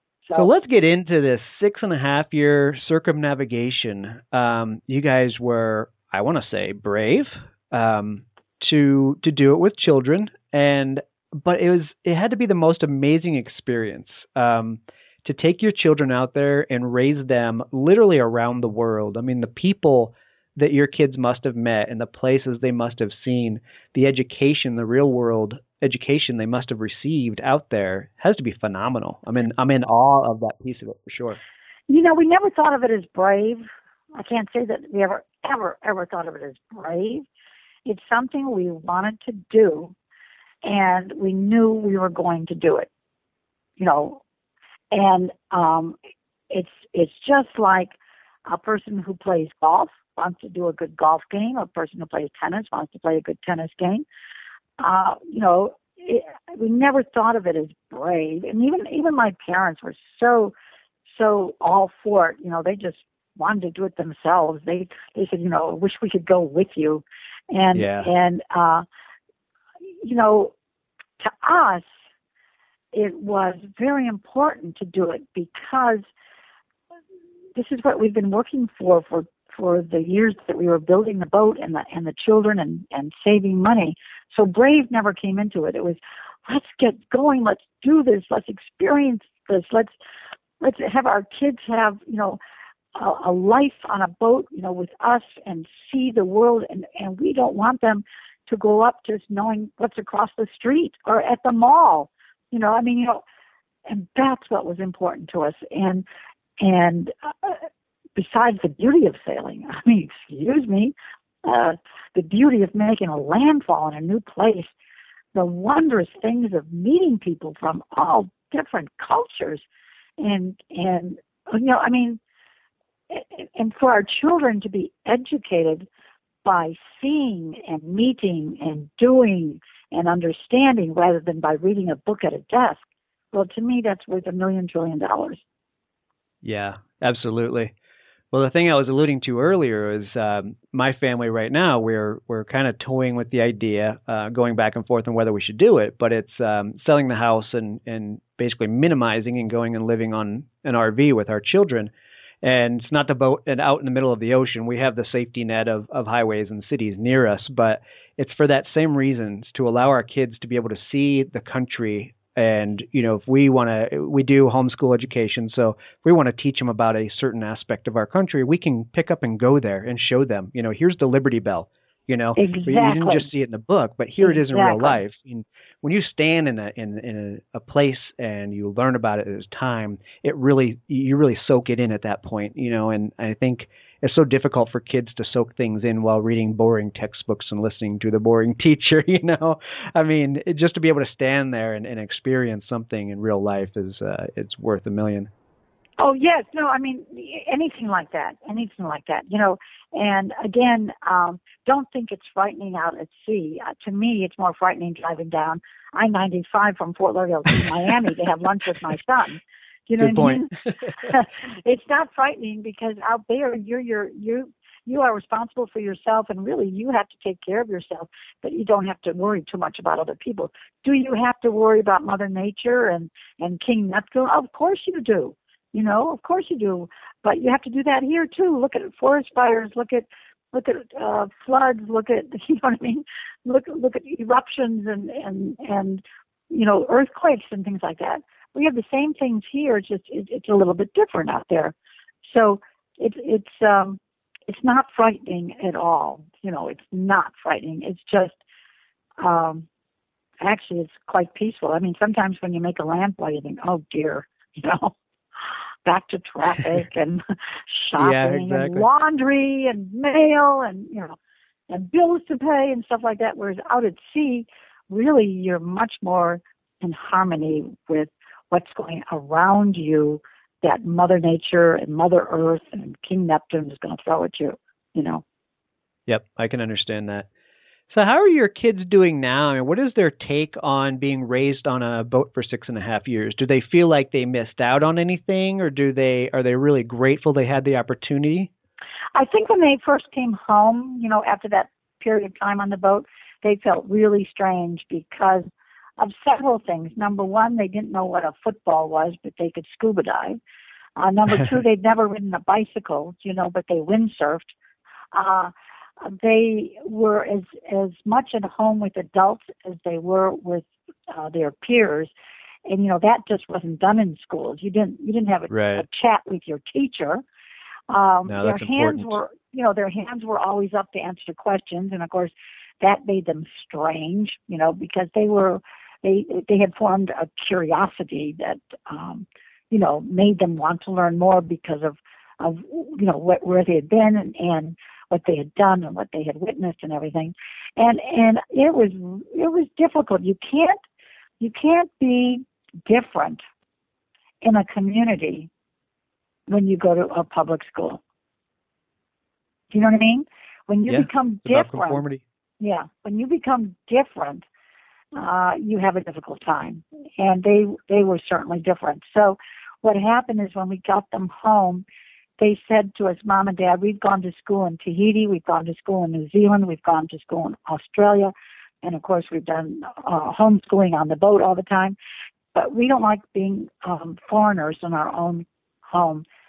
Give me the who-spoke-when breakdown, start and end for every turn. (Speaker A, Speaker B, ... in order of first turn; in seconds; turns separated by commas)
Speaker A: 0.4-31.4, Speaker B: 31.9-37.3, Speaker B: 37.9-40.0, Speaker B: 40.6-42.9, Speaker B: 43.8-44.2, Speaker B: 44.9-46.0, Speaker B: 46.5-48.0, Speaker B: 48.5-54.0, Speaker B: 54.8-60.5, Speaker B: 61.1-68.8, Speaker A: 67.7-68.1, Speaker B: 69.9-70.5, Speaker B: 71.2-72.0, Speaker B: 72.9-76.1, Speaker B: 77.5-90.0, Speaker B: 90.6-92.4, Speaker B: 93.0-103.2, Speaker B: 103.9-106.1, Speaker B: 106.6-114.7, Speaker B: 115.3-119.7, Speaker B: 120.2-122.2, Speaker B: 123.1-125.9, Speaker B: 126.5-135.4, Speaker A: 136.4-137.7, Speaker A: 138.3-151.9, Speaker A: 152.4-195.3, Speaker B: 172.4-173.3, Speaker B: 174.2-175.0, Speaker B: 196.0-248.4, Speaker A: 210.0-210.5, Speaker B: 249.2-249.7, Speaker B: 250.4-261.2, Speaker A: 258.0-258.9, Speaker B: 261.7-275.2, Speaker A: 276.1-277.3, Speaker A: 277.9-288.5, Speaker B: 289.1-300.4, Speaker B: 301.0-304.6, Speaker B: 305.1-312.1, Speaker B: 312.7-317.2, Speaker A: 315.5-315.9, Speaker B: 317.9-340.8, Speaker A: 318.3-319.2, Speaker B: 341.4-343.4, Speaker B: 344.4-345.5, Speaker B: 346.5-348.0, Speaker B: 349.7-352.0, Speaker A: 350.9-352.2, Speaker B: 352.6-354.5, Speaker B: 355.1-361.9, Speaker B: 362.4-372.0, Speaker B: 372.5-376.2